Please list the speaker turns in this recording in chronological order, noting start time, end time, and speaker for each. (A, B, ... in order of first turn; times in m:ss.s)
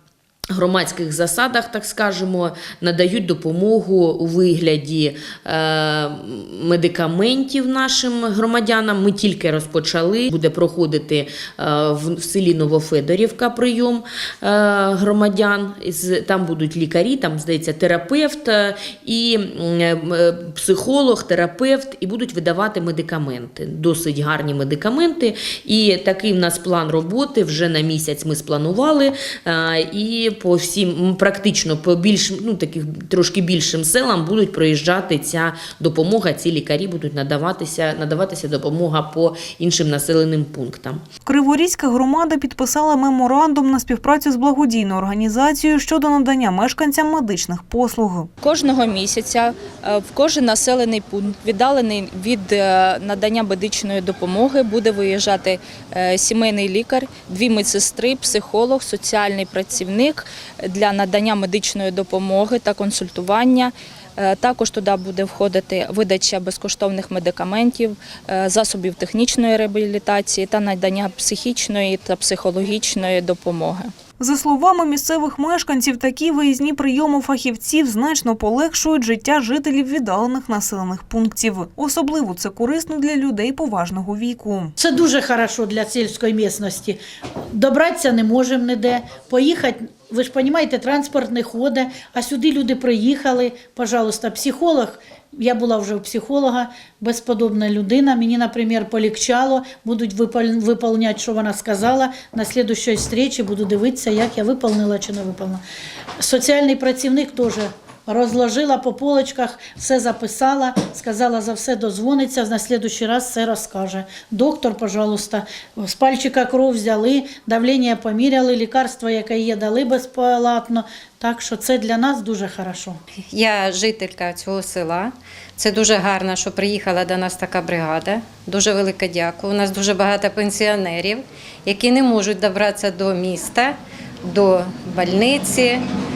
0:00.5-0:41.0 A
0:41.2-0:48.3 B
0:48.4-1:13.9 C
1:14.2-1:24.7 B
1:24.8-1:27.0 D
1:27.5-1:45.6 D
1:46.2-2:03.0 D
2:03.3-2:15.8 E